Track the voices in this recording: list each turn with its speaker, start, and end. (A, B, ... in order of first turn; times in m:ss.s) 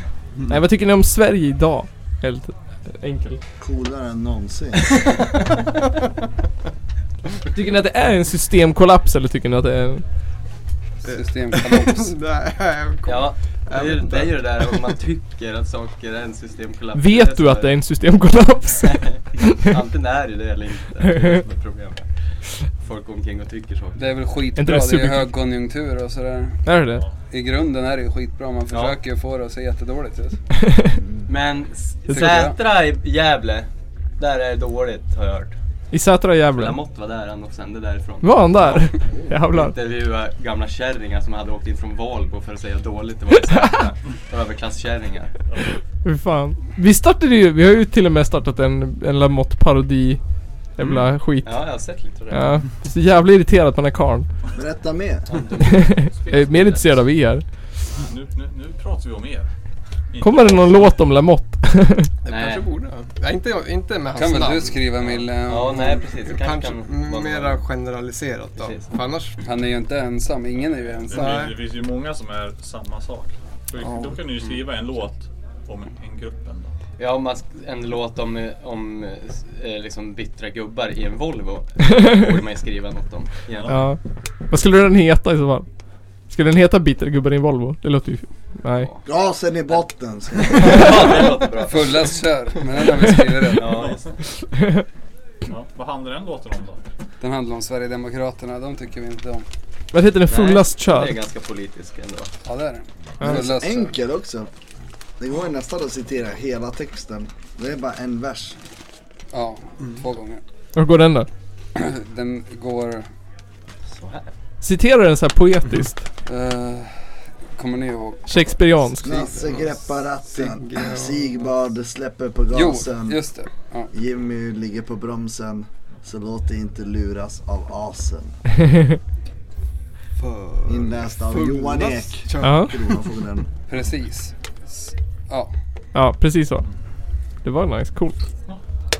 0:00.5-0:03.4 A
0:03.6-0:04.9 B
0:07.4-0:10.0 A
0:11.0-0:12.1 C
0:11.1-0:14.8 D
0:13.0-0:17.7 E
0:16.9-0:19.7 A
0:18.8-0:22.1 E
0:22.7-0:24.2 E
0:24.0-0:26.6 C
0:24.6-0:25.3 A
0:26.6-0:27.0 A
0:27.3-0:30.4 C
0:28.7-0:29.0 E
0:30.7-0:31.0 A
0:31.3-0:35.5 E
0:32.1-0:32.6 C
0:35.9-0:36.8 A
0:36.5-0:45.4 E
0:38.2-0:39.7 A
0:43.5-0:43.8 A
0:45.5-0:45.8 F
0:46.0-0:50.2 A
0:50.8-0:51.6 A
0:51.4-0:52.6 E
0:52.3-0:54.3 A
0:54.6-0:55.3 B
0:55.3-0:57.0 E
0:55.6-0:57.5 A
0:58.0-0:59.5 F
1:00.1-1:00.9 F
1:00.2-1:02.1 A
1:02.2-1:02.6 E
1:02.2-1:05.0 D
1:04.2-1:06.1 C
1:05.4-1:07.6 E
1:06.2-1:09.4 D
1:08.6-1:08.9 E
1:09.4-1:11.5 C
1:10.9-1:16.7 F
1:11.1-1:11.6 D
1:13.8-1:14.4 D
1:17.0-1:23.7 E
1:23.5-1:24.0 F
1:23.7-1:24.0 A
1:24.5-1:25.7 A
1:26.3-1:28.9 A
1:29.0-1:31.0 B
1:30.5-1:32.1 E
1:31.7-1:33.7 C
1:33.5-1:34.1 E
1:33.7-1:34.1 F
1:35.4-1:36.8 F
1:37.2-1:39.4 C
1:39.9-1:41.2 A
1:40.3-1:42.3 E
1:42.4-1:43.9 C
1:43.2-1:44.5 B
1:45.2-1:48.6 B
1:49.3-1:50.4 C
1:50.7-1:51.3 A
1:51.7-1:53.1 C
1:53.9-1:54.3 E
1:54.6-1:56.0 A
1:56.3-1:57.0 C
1:57.6-1:58.4 C
1:58.3-1:59.2 A
1:59.0-2:03.2 B
1:59.1-2:01.4 D
2:02.5-2:03.9 C
2:03.9-2:08.4 B
2:10.2-2:13.0 D
2:10.7-2:13.5 B
2:12.4-2:12.7 A
2:13.7-2:15.5 C
2:15.9-2:16.6 A
2:17.4-2:18.2 A